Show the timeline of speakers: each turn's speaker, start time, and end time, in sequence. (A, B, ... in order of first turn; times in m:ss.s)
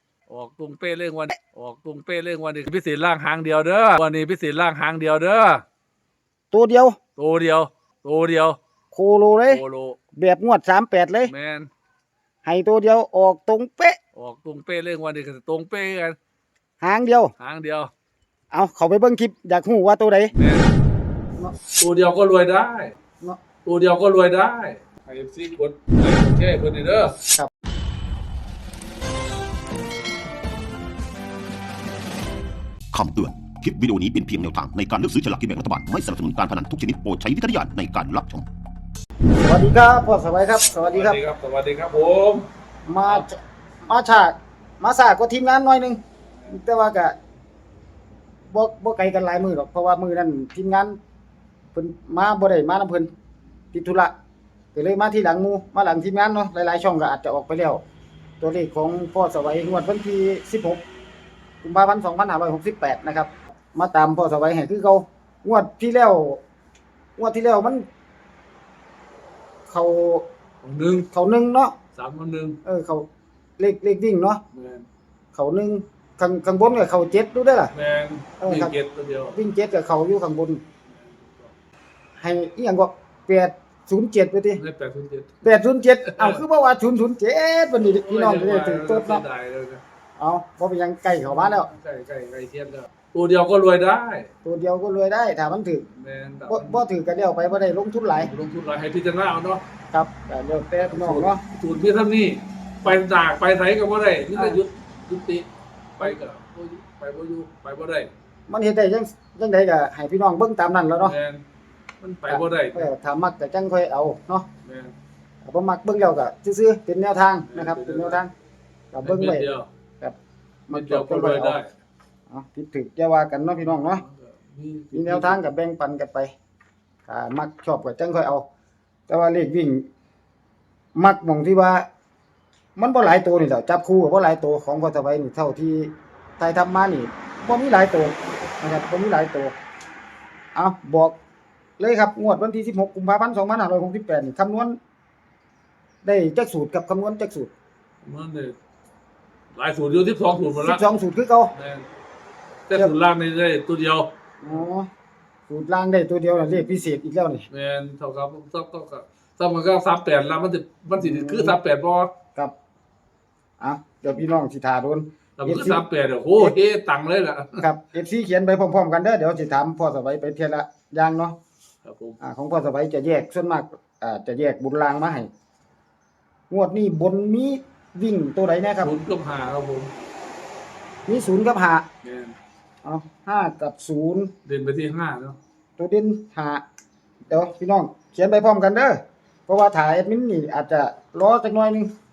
0:00.3-0:05.6 A
0:06.5-0:07.0 B
0:07.2-0:08.6 A
0:08.9-0:09.6 B
0:09.5-0:10.0 A
0:10.2-0:11.3 B
0:11.3-0:11.7 A
0:12.4-0:14.0 B
0:14.1-0:16.2 A
0:16.8-0:17.3 B
0:17.4-0:17.9 A
0:18.5-0:20.3 B
0:20.3-0:20.7 A
0:21.8-0:23.0 A
0:23.6-0:27.2 A
0:32.9-0:38.5 C
0:39.4-0:41.2 B
0:40.8-0:42.5 A
0:42.9-0:47.2 B
0:48.5-0:51.0 B
0:51.7-0:53.1 B
0:53.7-0:54.1 B
0:54.7-0:57.8 B
0:58.4-1:00.8 B
1:01.6-1:06.4 B
1:07.2-1:07.9 B
1:09.7-1:10.2 B
1:10.6-1:11.1 A
1:11.1-1:11.7 B
1:12.0-1:12.6 A
1:12.6-1:13.1 B
1:13.6-1:14.4 B
1:14.5-1:14.9 A
1:15.3-1:17.7 B
1:17.7-1:19.4 A
1:18.4-1:18.7 B
1:19.3-1:20.6 B
1:20.9-1:21.5 A
1:22.2-1:24.6 B
1:24.6-1:25.4 A
1:25.4-1:29.2 B
1:26.1-1:26.4 A
1:27.8-1:29.8 A
1:30.2-1:31.7 B
1:31.2-1:34.3 A
1:34.4-1:35.9 B
1:36.0-1:36.8 A
1:36.5-1:38.3 B
1:38.2-1:39.6 A
1:39.9-1:41.4 B
1:40.8-1:48.1 A
1:44.3-1:44.6 B
1:48.5-1:51.2 B
1:51.0-1:51.4 A
1:52.0-1:52.9 A
1:52.3-1:54.4 B
1:54.6-1:55.0 A
1:55.4-1:58.3 B
1:57.4-1:58.2 A
1:58.9-1:59.5 B
1:59.0-1:59.7 A
2:00.7-2:01.6 B
2:00.7-2:01.7 A
2:02.3-2:04.0 B
2:03.8-2:05.4 A
2:04.9-2:06.3 B
2:07.1-2:08.4 B
2:09.1-2:09.8 B
2:10.9-2:11.9 B
2:12.8-2:19.5 B
2:20.5-2:21.1 B
2:21.8-2:24.8 B
2:26.0-2:27.5 B
2:28.0-2:28.6 A
2:29.5-2:30.8 A
2:30.6-2:31.5 B
2:31.5-2:31.9 A
2:32.7-2:34.6 A
2:34.4-2:34.9 B
2:35.5-2:37.4 B
2:37.5-2:42.1 A
2:41.0-2:41.6 B
2:43.6-2:45.8 B
2:45.4-2:47.6 A
2:47.6-2:51.4 B
2:51.8-2:52.2 A
2:52.2-2:55.3 B
2:56.5-2:58.9 B
2:58.8-2:59.9 A
3:01.1-3:01.8 B
3:02.0-3:02.4 A
3:02.8-3:04.3 B
3:04.4-3:05.4 A
3:05.8-3:06.6 B
3:07.3-3:11.9 B